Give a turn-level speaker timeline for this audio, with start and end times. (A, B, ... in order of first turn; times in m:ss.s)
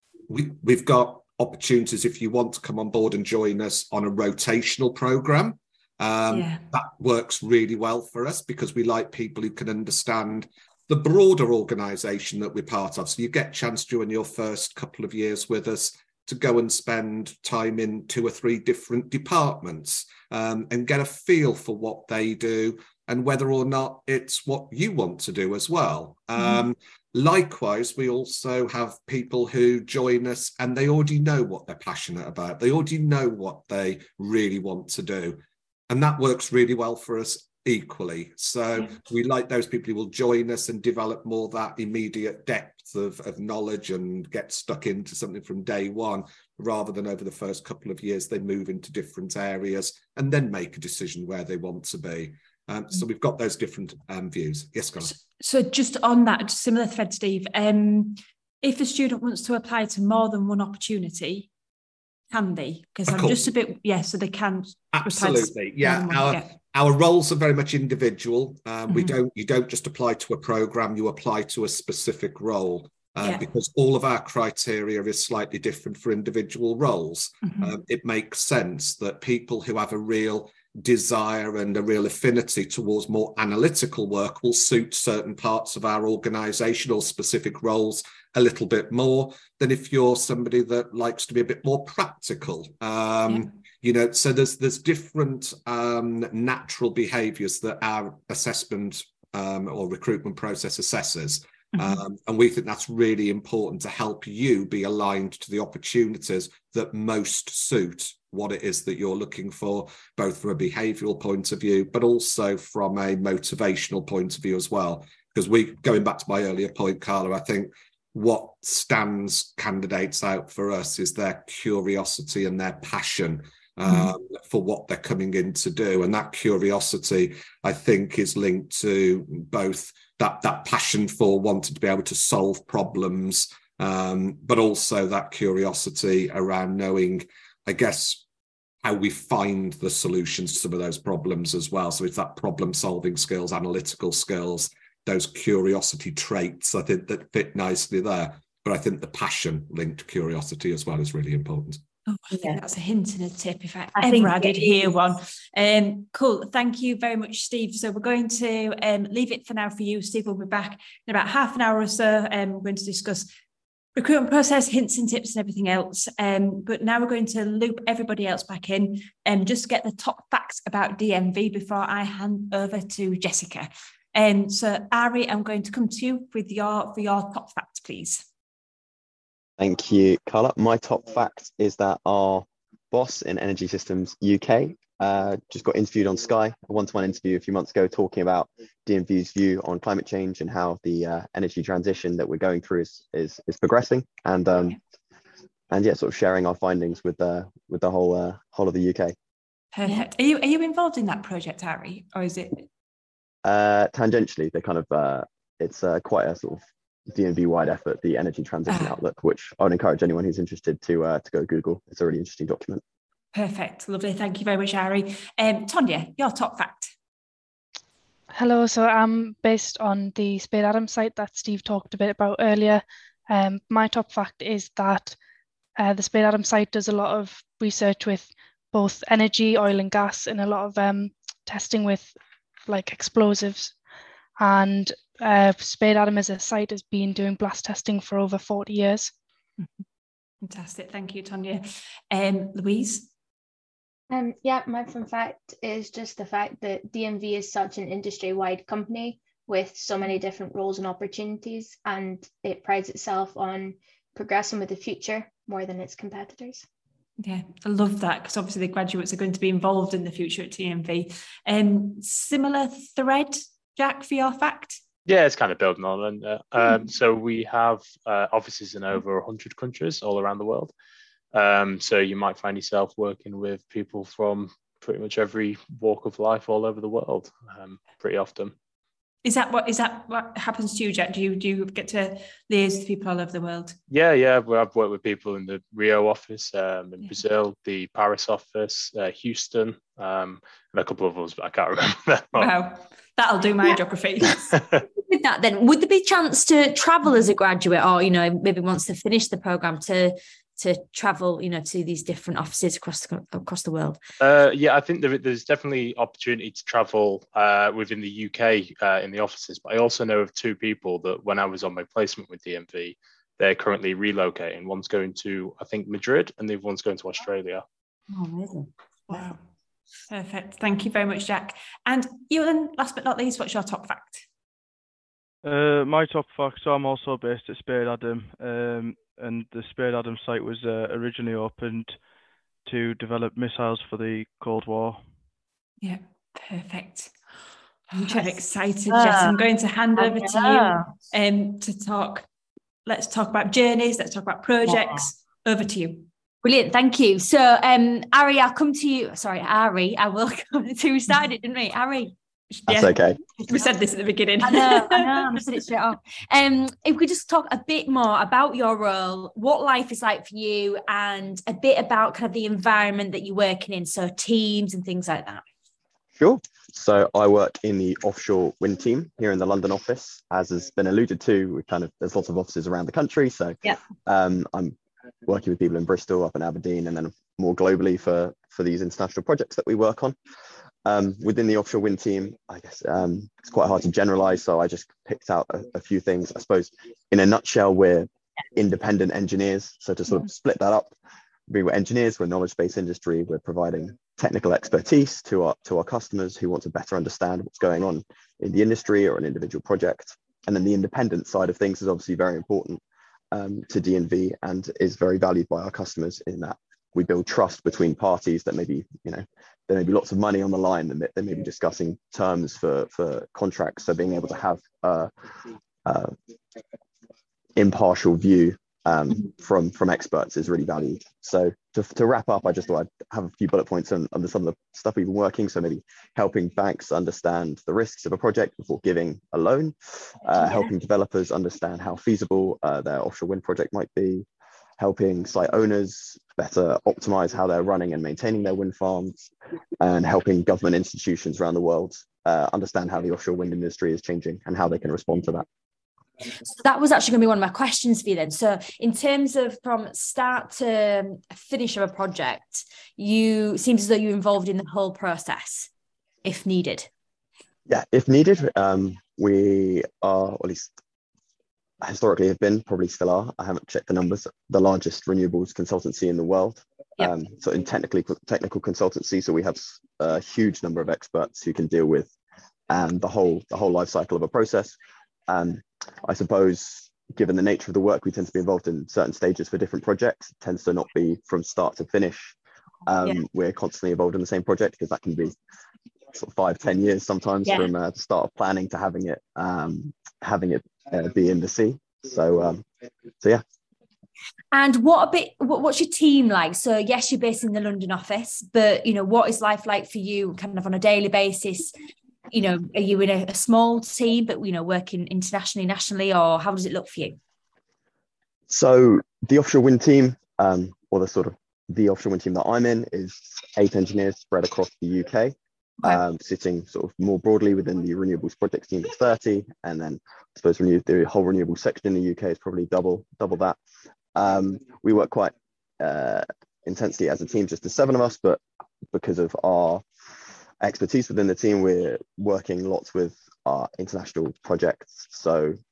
0:00.3-0:55.1 A
0:06.3-0:06.6 B
0:26.4-0:26.6 B
0:55.0-1:01.5 B
1:02.3-1:06.6 B
1:03.1-1:03.5 A
1:04.9-2:18.2 A
1:08.9-1:09.2 B
1:13.2-1:13.5 B
1:17.4-1:17.8 B
1:41.7-1:42.0 B
2:03.9-2:04.1 B
2:18.8-2:31.8 A
2:32.1-2:43.3 B
2:32.3-2:32.6 C
2:34.0-2:34.9 C
2:44.0-2:58.2 B
2:59.6-3:14.8 D
3:15.7-3:19.2 D
3:19.7-3:22.7 B
3:23.4-3:32.8 D
3:28.7-3:29.0 B
3:33.3-3:36.9 B
3:38.3-3:45.2 E
3:45.8-3:52.1 E
3:52.7-3:53.7 E
3:54.4-3:59.1 E
4:00.4-4:03.1 B
4:04.1-4:16.6 F
4:17.2-4:24.8 B
4:25.1-4:30.7 G
4:31.3-4:38.6 G
4:39.2-4:43.8 B
4:43.9-4:52.5 G
4:52.4-4:54.5 B
4:54.5-4:54.8 G
4:55.1-5:04.0 C
5:04.2-5:17.6 G
5:18.1-5:19.2 C
5:19.1-5:19.4 B
5:20.1-5:24.2 B
5:25.4-5:32.0 H
5:32.7-5:35.0 H
5:35.8-5:37.2 B
5:37.9-5:42.3 B
5:38.9-5:39.4 C
5:40.0-5:40.9 C
5:42.9-5:46.1 B
5:44.7-5:45.0 C
5:46.4-5:52.1 C
5:52.5-5:55.4 B
5:52.7-5:53.2 D
5:54.4-6:05.4 C
6:06.2-6:20.2 D
6:20.8-6:30.9 D
6:31.5-6:42.8 D
6:43.3-6:55.1 D
6:55.8-6:56.2 D
6:57.6-7:14.3 D
7:14.8-7:19.3 D
7:19.8-7:25.4 D
7:26.5-7:35.7 C
7:36.2-7:36.9 C
7:37.7-7:40.7 D
7:41.8-7:52.1 D
7:52.7-7:54.8 D
7:55.3-8:02.4 D
8:02.9-8:05.4 D
8:06.1-8:12.7 D
8:14.5-8:21.7 C
8:22.3-8:27.2 C
8:28.5-8:43.6 D
8:44.2-8:48.4 D
8:48.9-8:49.8 D
8:50.6-8:55.6 D